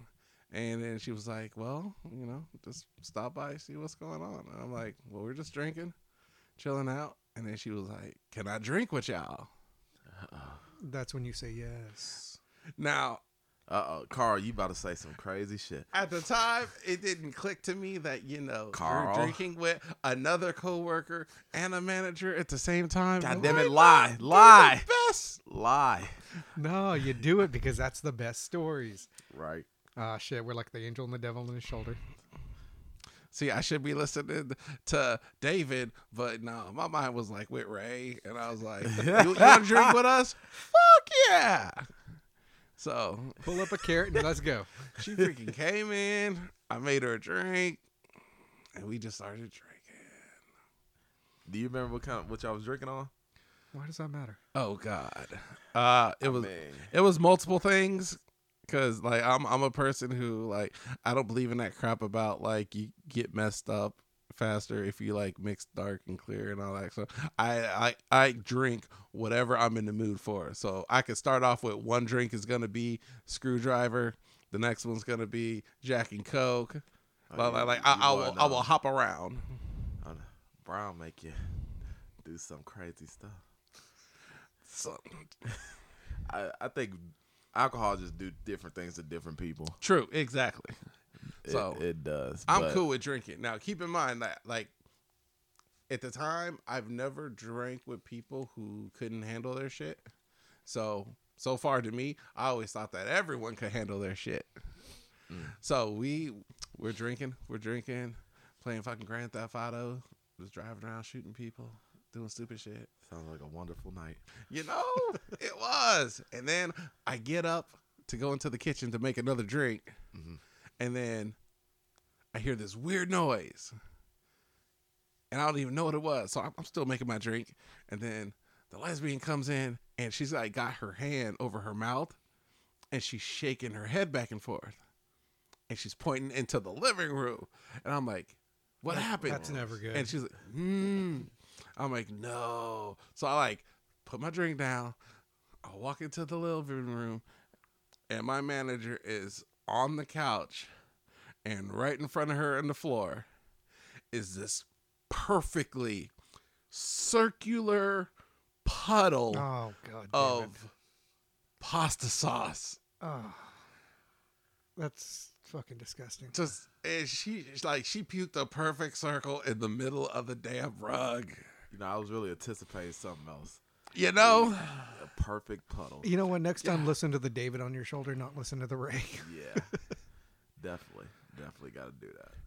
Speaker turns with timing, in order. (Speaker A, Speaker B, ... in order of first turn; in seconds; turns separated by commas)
Speaker A: 0.5-5.9, Speaker A: 6.6-9.5, Speaker B: 10.1-10.6, Speaker C: 10.8-12.4, Speaker A: 12.8-13.2, Speaker B: 13.7-15.9, Speaker A: 15.9-25.4, Speaker B: 18.7-19.4, Speaker B: 23.2-24.9, Speaker B: 25.4-26.2, Speaker C: 26.6-29.1, Speaker B: 29.3-29.7, Speaker C: 30.0-32.0, Speaker A: 33.3-41.9, Speaker B: 38.8-40.0, Speaker A: 42.8-43.7, Speaker C: 43.4-44.7, Speaker A: 44.9-47.8, Speaker A: 48.7-50.3, Speaker B: 51.5-53.1, Speaker C: 53.7-54.4, Speaker A: 54.5-76.8, Speaker B: 56.2-56.9, Speaker B: 77.3-78.7, Speaker A: 77.3-79.5, Speaker B: 80.0-81.5, Speaker B: 82.2-83.4, Speaker A: 84.6-85.5, Speaker B: 86.2-89.8, Speaker A: 89.8-90.8, Speaker B: 91.4-92.8, Speaker A: 91.5-91.8, Speaker A: 92.5-94.7, Speaker A: 95.9-100.0, Speaker A: 100.7-104.5, Speaker B: 105.3-105.5, Speaker A: 105.6-112.9, Speaker B: 113.0-114.2, Speaker A: 114.5-119.9, Speaker B: 120.1-120.4, Speaker A: 120.8-121.3, Speaker A: 122.3-123.7, Speaker A: 125.3-132.2, Speaker A: 132.9-134.8, Speaker A: 135.7-144.9, Speaker C: 138.9-140.1, Speaker A: 145.6-147.2, Speaker A: 148.1-150.7, Speaker A: 151.4-153.3, Speaker A: 154.1-156.1, Speaker A: 156.7-158.1, Speaker A: 158.6-159.4, Speaker C: 159.3-160.5, Speaker A: 160.1-160.7, Speaker A: 161.6-162.8, Speaker C: 163.0-163.6, Speaker C: 164.8-166.3, Speaker A: 166.3-171.5, Speaker B: 171.7-173.6, Speaker A: 173.9-175.0, Speaker B: 174.2-176.1, Speaker C: 176.0-179.8, Speaker A: 176.6-176.9, Speaker B: 179.2-179.7, Speaker B: 180.6-182.4